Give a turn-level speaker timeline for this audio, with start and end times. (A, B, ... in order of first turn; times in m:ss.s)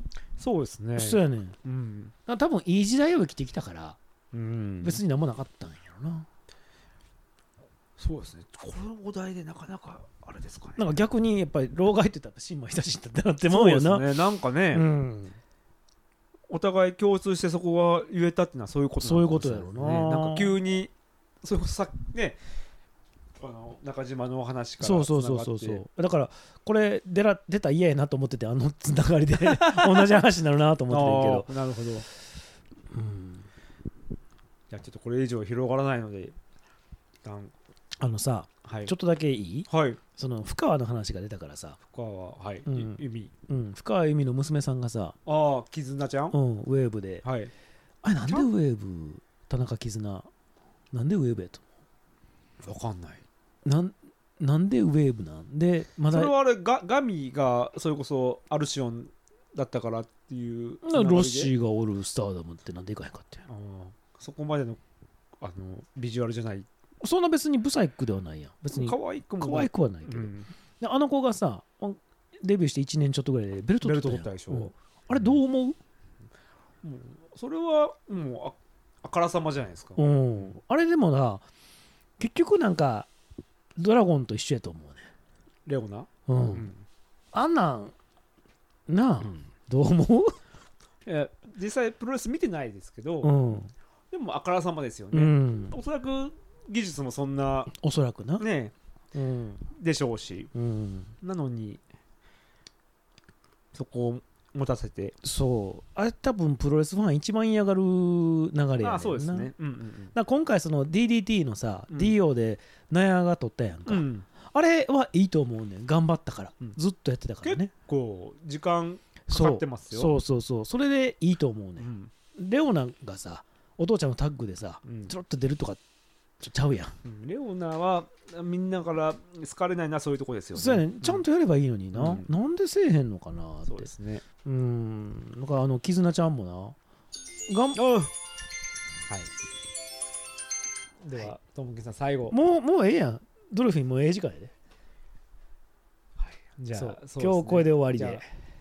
0:00.4-0:02.1 A
0:01.0-0:01.6 B
0:02.2-0:04.0 B
0:04.3-0:05.0 A
0:04.8-0:06.3 B
0:08.0-0:10.9 A
0:10.8-0:14.2 B
0:13.5-0:14.9 A
0:14.7-0:15.4 B
0:16.5-0:22.4 A
0:19.0-0:20.5 B
0:23.4-0:25.8 A
0:24.8-0:31.5 B
0:29.3-0:30.2 A
0:30.9-0:32.0 A
0:32.9-0:33.5 B
0:34.7-0:36.4 A
0:37.2-0:37.5 A
0:38.0-0:41.8 B
0:38.6-0:38.9 A
0:39.7-0:40.0 A
0:41.9-0:43.3 A
0:42.7-0:45.1 B
0:45.2-0:46.4 A
0:46.3-0:47.2 B
0:47.2-0:47.5 A
0:48.0-0:50.3 B
0:50.9-0:51.6 B
0:52.6-0:53.2 A
0:53.6-0:56.3 B
0:56.1-1:01.5 A
1:00.8-1:03.4 B
1:03.5-1:04.8 A
1:05.4-1:06.7 A
1:07.0-1:15.8 B
1:08.7-1:10.5 A
1:13.8-1:15.4 A
1:16.8-1:20.5 A
1:20.0-1:21.4 B
1:22.2-1:23.1 B
1:23.8-1:25.1 B
1:25.6-1:26.8 A
1:26.3-1:26.7 B
1:27.3-1:27.9 B
1:28.9-1:30.4 B
1:29.2-1:29.5 A
1:31.0-1:33.4 A
1:33.2-1:33.7 B
1:34.1-1:37.7 A
1:35.1-1:35.7 B
1:37.7-1:38.4 B
1:38.4-1:38.7 A
1:39.1-1:39.7 B
1:39.7-1:40.5 A
1:40.5-1:41.1 B
1:41.2-1:41.8 A
1:43.7-1:45.2 A
1:45.2-1:49.5 B
1:48.8-1:50.1 A
1:50.1-1:57.7 B
1:51.9-1:52.2 A
1:53.8-1:54.2 A
1:57.4-2:00.1 A
1:59.3-2:05.8 B
2:01.8-2:02.1 A
2:04.8-2:05.1 A
2:06.4-2:06.9 B
2:07.0-2:11.2 A
2:10.5-2:13.9 B
2:11.9-2:12.3 A
2:13.6-2:14.2 A
2:14.4-2:16.8 B
2:17.5-2:17.8 B
2:17.8-2:18.1 A
2:21.0-2:22.4 A
2:22.3-2:24.5 B
2:26.2-2:28.2 A
2:26.7-2:28.2 B